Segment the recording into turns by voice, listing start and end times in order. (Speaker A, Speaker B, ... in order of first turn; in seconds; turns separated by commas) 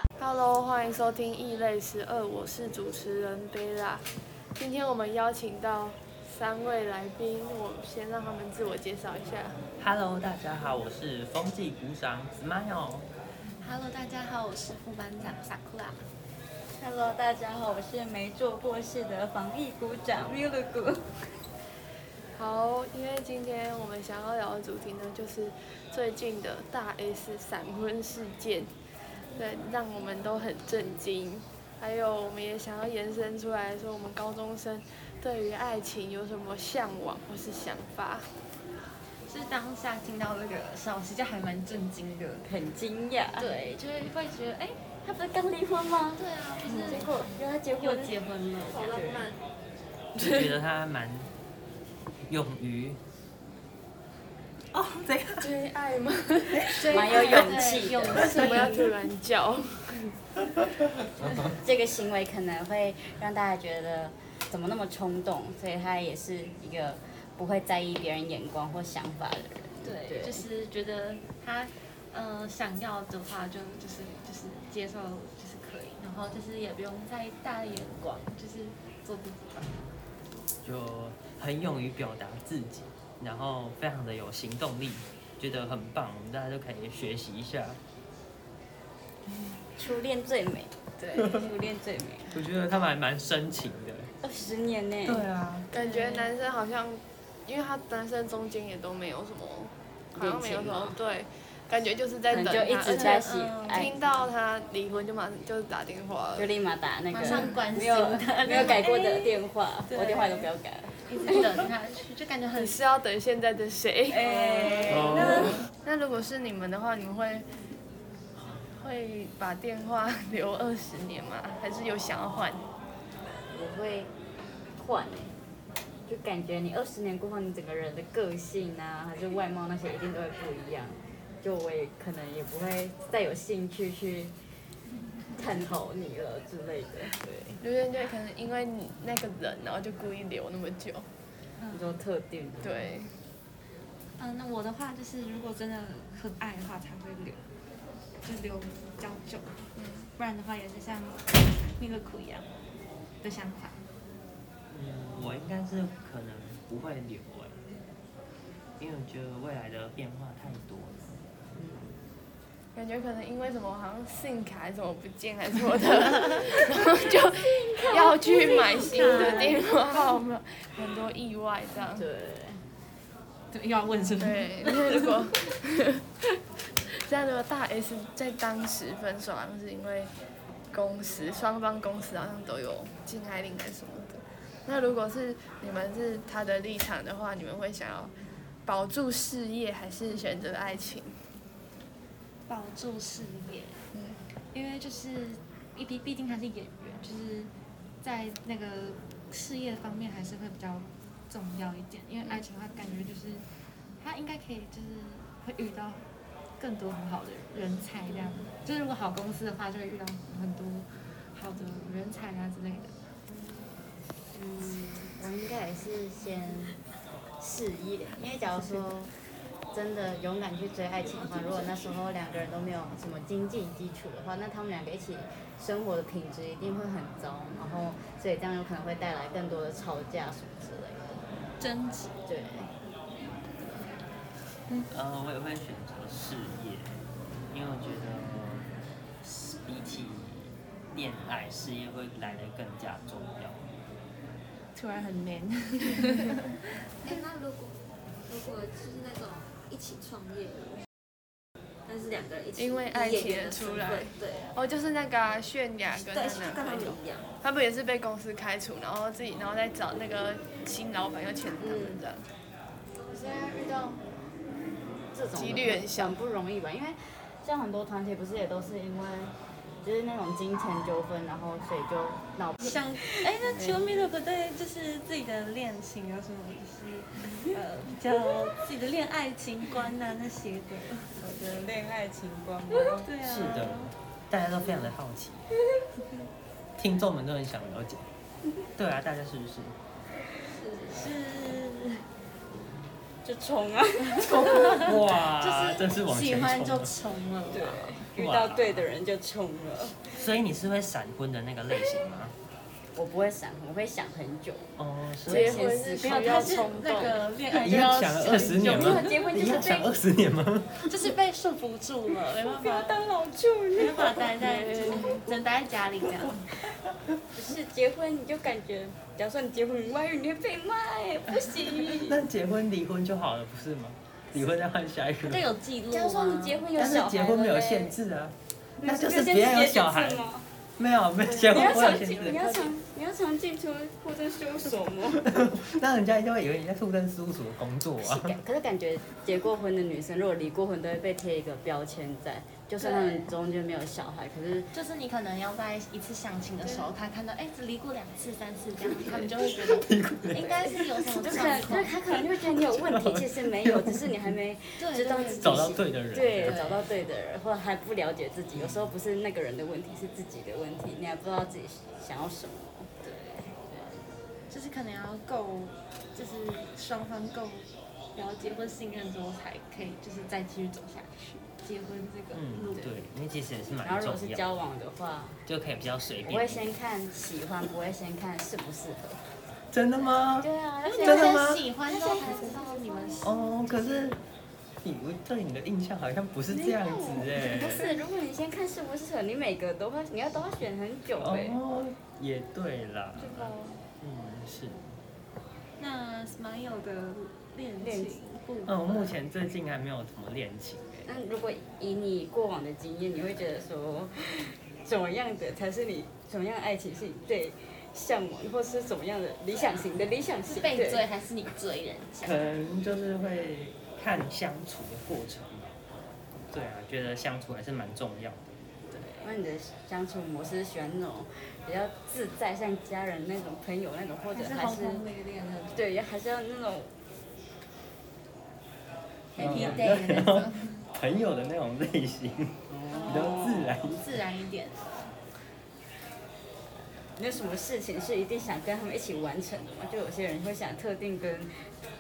Speaker A: 0.2-4.0, Speaker A: 4.6-9.6, Speaker B: 9.8-13.1, Speaker C: 13.6-16.0, Speaker D: 16.7-21.2, Speaker A: 22.4-28.7, Speaker A: 29.4-38.3, Speaker C: 39.3-42.5, Speaker D: 42.5-43.5, Speaker C: 43.4-44.8, Speaker D: 45.0-49.3, Speaker C: 46.2-47.1, Speaker C: 47.8-49.4, Speaker B: 50.2-51.3, Speaker B: 52.3-53.0, Speaker B: 54.7-55.5, Speaker A: 55.4-57.1, Speaker C: 56.7-58.9, Speaker D: 56.9-58.4, Speaker A: 58.1-60.1, Speaker D: 61.5-70.5, Speaker C: 69.8-79.9, Speaker B: 80.6-87.8, Speaker D: 89.8-92.4, Speaker B: 92.3-94.1, Speaker D: 94.2-95.3, Speaker B: 95.0-95.7, Speaker A: 95.7-106.5, Speaker C: 95.8-96.3, Speaker D: 100.2-101.0, Speaker D: 102.3-104.0, Speaker C: 102.8-103.9, Speaker D: 106.4-111.6, Speaker C: 107.1-110.5, Speaker C: 111.1-112.8, Speaker A: 112.6-114.3, Speaker D: 114.1-115.6, Speaker C: 114.2-115.5, Speaker B: 114.9-115.6, Speaker A: 115.0-117.5, Speaker A: 118.4-122.6, Speaker D: 123.5-124.1, Speaker D: 124.8-125.3, Speaker D: 126.1-134.3, Speaker D: 135.3-137.6, Speaker A: 137.6-141.1, Speaker C: 141.6-141.9, Speaker D: 141.7-142.9, Speaker A: 142.6-143.2, Speaker C: 144.2-147.4, Speaker C: 148.2-149.6, Speaker A: 149.8-150.1, Speaker C: 150.2-152.5, Speaker C: 153.2-153.8, Speaker B: 154.7-157.6, Speaker B: 158.8-161.2, Speaker D: 161.6-162.0, Speaker A: 162.8-172.1, Speaker D: 167.1-169.6, Speaker C: 168.7-169.6, Speaker D: 171.9-172.6, Speaker C: 173.5-175.3, Speaker A: 174.2-176.0, Speaker A: 177.1-180.1, Speaker A: 180.7-188.1, Speaker A: 188.7-191.1, Speaker C: 192.5-193.8, Speaker A: 193.9-194.2, Speaker C: 194.5-197.5, Speaker C: 198.0-203.4, Speaker C: 204.0-206.1, Speaker C: 206.6-212.9, Speaker D: 214.3-216.7, Speaker D: 217.4-219.1, Speaker D: 219.7-231.2, Speaker C: 231.6-232.1, Speaker D: 232.3-232.7, Speaker B: 234.9-238.7, Speaker B: 239.2-243.8, Speaker C: 244.8-246.6, Speaker E: 247.0-250.8, Speaker E: 251.9-254.5, Speaker A: 252.6-262.3, Speaker E: 255.9-257.3, Speaker E: 261.6-262.0, Speaker D: 265.1-273.9, Speaker A: 265.4-266.2, Speaker C: 272.6-281.1, Speaker D: 281.2-283.1, Speaker C: 282.9-283.9, Speaker B: 283.2-285.5, Speaker B: 286.8-288.1, Speaker B: 288.8-289.8, Speaker C: 290.9-292.0, Speaker D: 293.2-294.8, Speaker B: 294.2-296.9, Speaker C: 294.2-298.1, Speaker D: 297.5-300.1, Speaker B: 298.1-298.9, Speaker B: 300.1-302.3, Speaker D: 302.9-306.6, Speaker B: 304.8-305.7, Speaker A: 305.3-307.2, Speaker C: 306.0-309.3, Speaker B: 307.5-311.0, Speaker D: 308.5-310.0, Speaker C: 310.9-313.0, Speaker D: 312.4-315.2, Speaker C: 313.7-316.5, Speaker A: 314.4-315.2, Speaker D: 317.3-322.3, Speaker B: 321.9-325.5, Speaker C: 325.2-327.0, Speaker D: 325.9-328.0, Speaker B: 326.8-332.5, Speaker D: 328.8-330.4, Speaker C: 331.4-332.7, Speaker D: 331.4-335.4, Speaker B: 335.2-338.4, Speaker D: 338.0-344.7, Speaker C: 342.8-343.2, Speaker C: 344.7-352.2, Speaker B: 349.6-350.8, Speaker D: 350.4-362.9, Speaker B: 352.5-354.1, Speaker C: 354.8-355.7, Speaker B: 355.4-356.8, Speaker C: 356.4-356.8, Speaker B: 358.6-358.9, Speaker C: 363.0-363.5, Speaker D: 363.6-364.1, Speaker C: 364.5-372.9, Speaker B: 372.3-374.5, Speaker D: 373.8-375.4, Speaker B: 375.5-376.7, Speaker D: 376.2-379.2, Speaker B: 379.7-380.5, Speaker D: 380.4-383.3, Speaker C: 380.9-383.4, Speaker B: 381.0-381.7, Speaker B: 383.2-384.2, Speaker B: 384.8-387.9, Speaker C: 386.5-387.9, Speaker D: 387.2-391.6, Speaker B: 391.2-395.0, Speaker C: 395.8-399.2, Speaker D: 397.8-398.2, Speaker B: 398.7-401.2, Speaker D: 401.1-411.0, Speaker C: 410.5-412.5, Speaker B: 412.2-415.8, Speaker B: 416.5-418.6, Speaker C: 418.9-419.2, Speaker D: 419.0-425.1, Speaker C: 424.3-425.9, Speaker D: 425.7-426.9, Speaker D: 429.4-430.0, Speaker C: 429.4-430.8, Speaker B: 429.4-434.0, Speaker D: 432.7-433.8, Speaker C: 432.9-435.1, Speaker D: 437.1-441.7